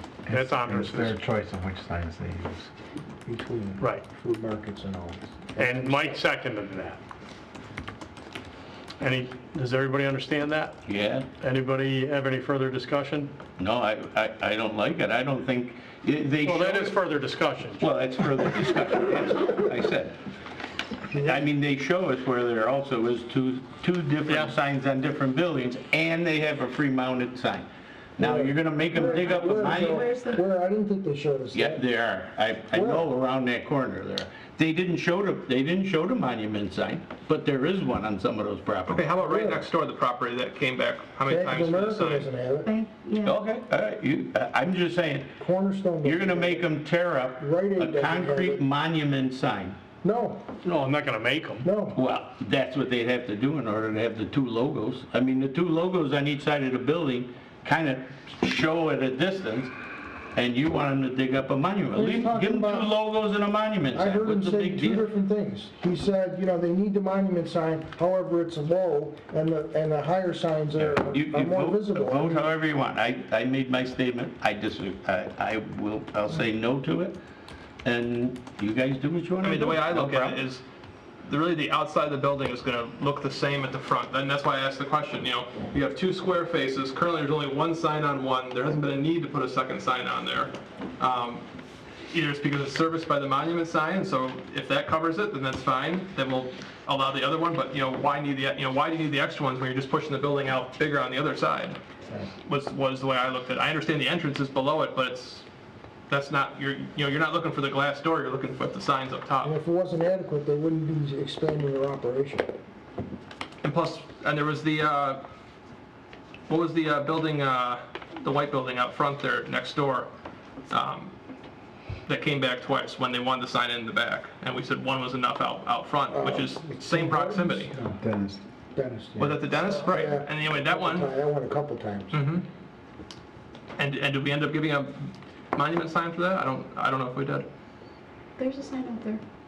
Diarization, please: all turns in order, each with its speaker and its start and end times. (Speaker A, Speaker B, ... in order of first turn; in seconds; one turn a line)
Speaker A: 0.2-2.7
Speaker B: 0.3-1.1
Speaker C: 3.2-6.2
Speaker B: 3.8-4.0
Speaker B: 5.6-7.0
Speaker B: 9.0-10.8
Speaker D: 10.9-11.3
Speaker B: 11.4-13.3
Speaker D: 13.6-17.0
Speaker B: 16.4-17.9
Speaker D: 17.8-20.1
Speaker C: 21.1-21.4
Speaker D: 21.2-30.1
Speaker B: 24.3-24.5
Speaker C: 28.2-31.8
Speaker E: 29.2-30.4
Speaker D: 31.5-39.1
Speaker C: 32.7-33.0
Speaker F: 38.9-42.3
Speaker C: 39.2-39.6
Speaker C: 41.2-42.7
Speaker E: 42.6-43.4
Speaker D: 43.2-45.4
Speaker C: 45.4-46.7
Speaker D: 46.0-49.8
Speaker C: 47.4-48.6
Speaker C: 50.0-50.4
Speaker B: 50.6-51.7
Speaker C: 51.6-52.0
Speaker D: 51.9-59.7
Speaker D: 60.3-65.0
Speaker C: 61.9-62.9
Speaker C: 63.9-72.5
Speaker D: 70.8-77.2
Speaker D: 77.8-80.4
Speaker F: 79.4-80.6
Speaker F: 81.2-91.4
Speaker F: 92.1-101.8
Speaker F: 102.4-105.4
Speaker F: 106.1-109.5
Speaker C: 109.4-112.5
Speaker F: 113.6-115.2
Speaker F: 116.5-120.1
Speaker F: 120.7-121.1
Speaker F: 122.0-127.7
Speaker C: 126.1-128.0
Speaker A: 128.0-128.4
Speaker C: 128.7-132.2
Speaker F: 129.2-131.1
Speaker F: 132.1-132.4
Speaker F: 133.8-137.4
Speaker E: 138.4-139.2